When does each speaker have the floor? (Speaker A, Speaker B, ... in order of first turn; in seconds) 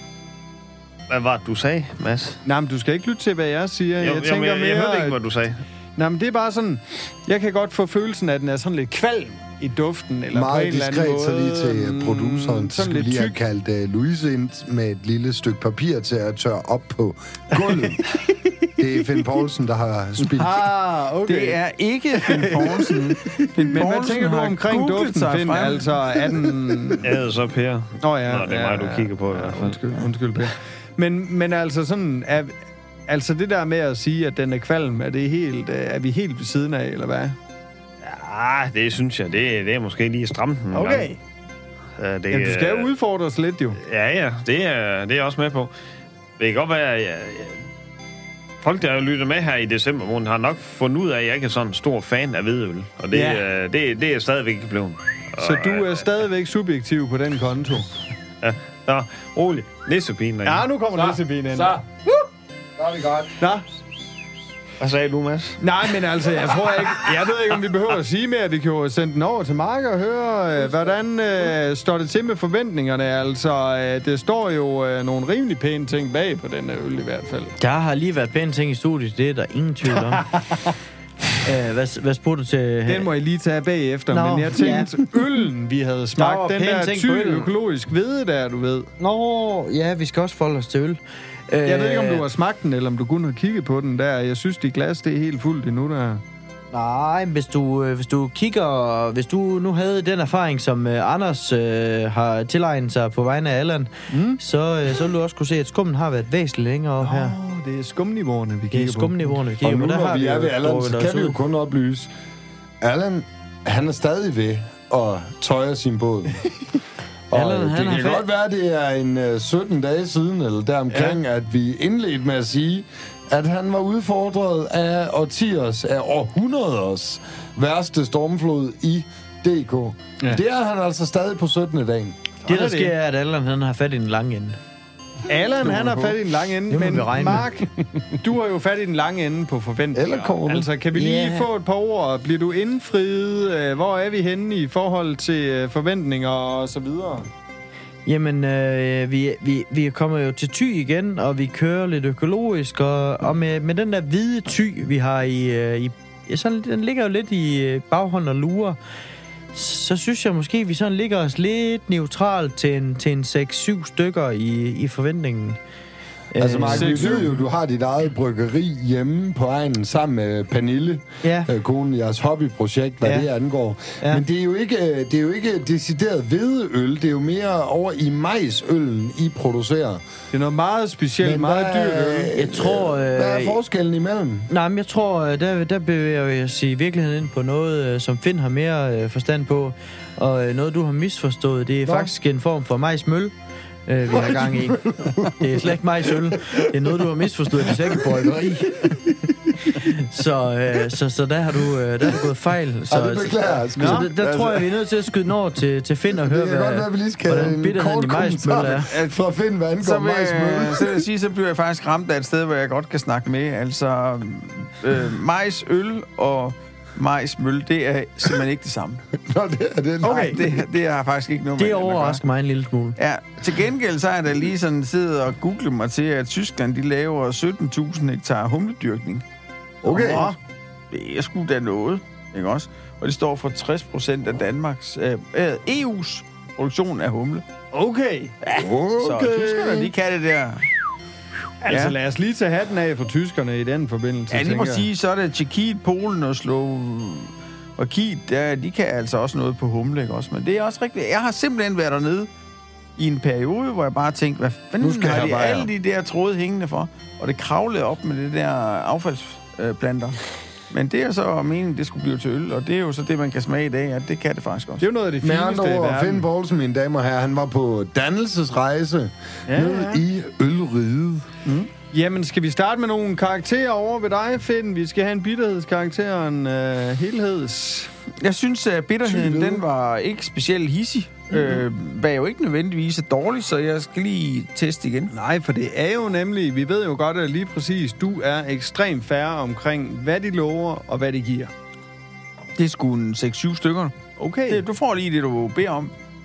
Speaker A: 1.1-2.4, 4.0-5.6, 27.0-29.8, 38.0-41.1, 42.0-42.9, 43.8-45.7, 46.4-47.5, 48.6-56.0, 58.4-60.7, 64.8-65.6
Speaker B: 2.4-5.2, 6.0-13.4, 20.3-21.6, 22.1-27.2, 28.0-32.5, 33.1-37.4, 40.7-41.2, 42.3-43.8, 53.1-53.5, 55.4-57.9, 60.4-62.2, 63.4-63.6, 65.6-77.5, 80.1-80.4, 82.9-88.9, 91.7-96.2, 104.1-104.4, 107.0-109.4, 120.9-121.2, 132.4-132.9, 135.3-147.3, 166.7-167.3, 180.3-182.3, 203.8-204.6, 220.0-220.4, 229.9-230.4, 237.7-238.4, 241.6-244.9, 264.8-266.2, 269.5-270.0, 271.4-277.9, 285.1-291.5, 294.2-294.6
Speaker C: 10.3-18.1, 18.8-20.6, 61.5-61.8, 62.8-63.4, 109.6-112.1, 112.8-116.4, 117.3-132.2, 139.9-140.7, 166.4-180.0, 181.2-184.5, 191.8-192.1, 194.1-196.9, 197.7-198.3, 202.9-204.1, 206.2-211.1, 219.2-220.6, 229.8-230.3, 238.6-239.9, 254.8-255.7, 265.2-271.3, 279.0-279.6
Speaker D: 21.3-26.3, 209.8-219.0, 220.0-222.2, 223.0-229.2, 229.9-230.3, 230.9-237.4, 239.0-240.7, 241.7-242.0, 244.3-252.3, 253.0-260.2, 260.7-264.9, 278.2-285.1, 292.6-295.9
Speaker E: 77.6-80.3, 81.5-83.1, 84.1-84.9, 86.2-87.5, 89.0-92.2, 96.7-107.4, 108.7-111.4, 117.3-118.3, 132.5-134.6, 136.7-137.5, 140.9-141.5, 148.1-158.8, 159.5-165.6, 166.3-167.2, 171.2-171.5, 182.4-183.6, 184.5-193.3, 193.9-199.0, 199.7-208.9, 221.6-223.0